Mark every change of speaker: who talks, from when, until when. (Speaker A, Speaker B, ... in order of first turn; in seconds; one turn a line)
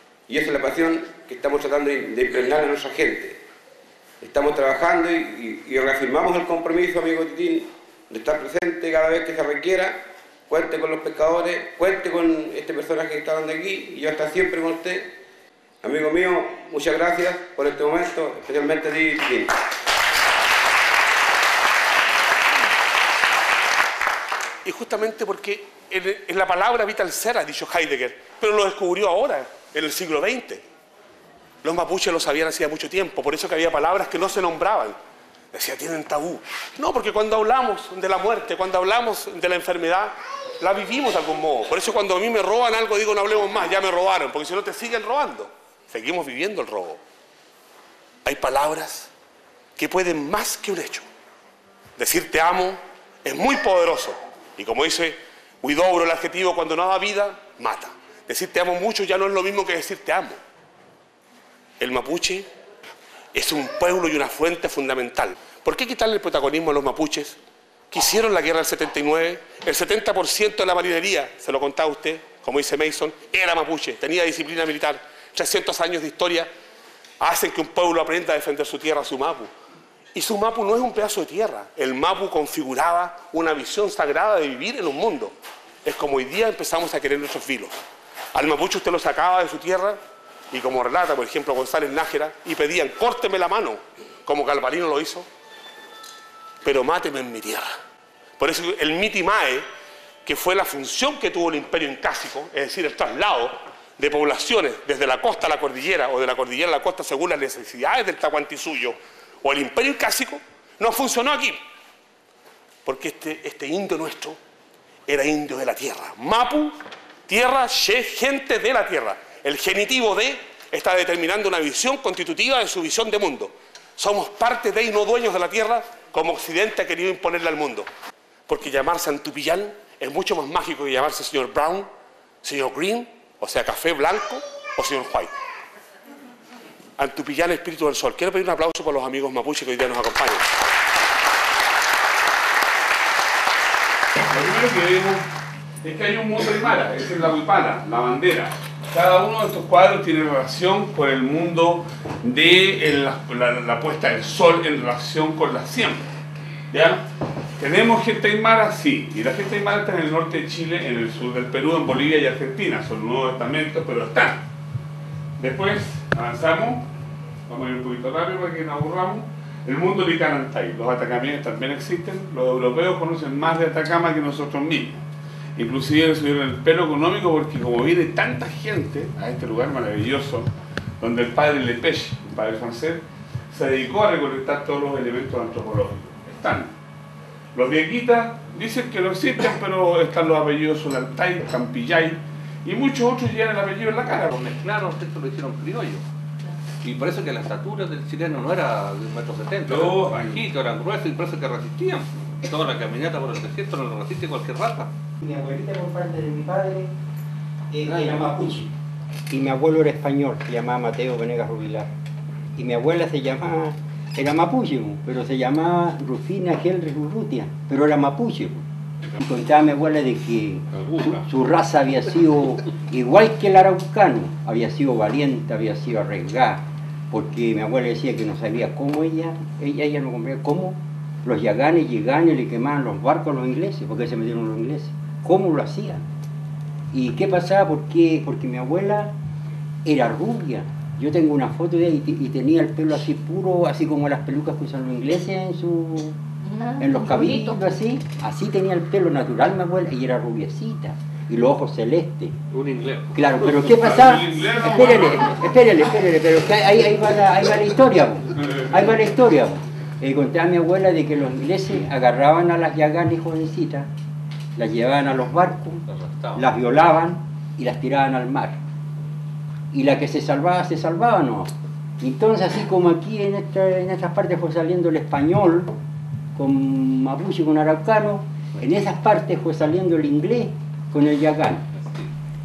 Speaker A: 0.3-3.4
Speaker A: 4.2-10.0
Speaker A: 10.5-15.1
Speaker A: 15.8-19.5
Speaker B: 24.6-30.6
Speaker B: 31.6-35.0
Speaker B: 35.5-47.0
Speaker B: 48.2-49.1
Speaker B: 49.8-51.0
Speaker B: 52.0-60.4
Speaker B: 61.8-62.5
Speaker B: 63.3-67.4
Speaker B: 67.9-76.5
Speaker B: 77.2-79.5
Speaker B: 80.1-87.7
Speaker B: 88.3-90.0
Speaker B: 90.5-95.3
Speaker B: 96.6-97.7
Speaker B: 98.4-99.7
Speaker B: 100.2-111.6
Speaker B: 112.8-114.4
Speaker B: 115.1-116.8
Speaker B: 117.3-127.9
Speaker B: 128.5-131.9
Speaker B: 132.4-135.3
Speaker B: 137.0-140.4
Speaker B: 144.3-145.2
Speaker B: 145.8-156.0
Speaker B: 156.7-157.0
Speaker B: 157.6-164.4
Speaker B: 165.4-166.8
Speaker B: 167.5-175.0
Speaker B: 175.6-180.5
Speaker B: 181.0-186.7
Speaker B: 187.5-194.3
Speaker C: 194.3-196.0
Speaker C: 196.8-204.9
Speaker B: 199.7-200.4
Speaker D: 205.2-206.9
Speaker D: 207.7-208.7
Speaker C: 207.9-208.2
Speaker D: 209.3-211.9
Speaker D: 212.6-218.7
Speaker D: 219.2-236.0
Speaker C: 220.7-221.2
Speaker D: 236.9-239.1
Speaker D: 239.8-246.2
Speaker D: 246.7-252.4
Speaker C: 252.5-253.9
Speaker D: 253.1-263.9
Speaker B: 253.8-255.2
Speaker D: 264.6-265.8
Speaker C: 265.8-266.4
Speaker D: 266.3-268.6
Speaker D: 269.7-275.8
Speaker D: 276.3-281.6
Speaker C: 281.7-282.1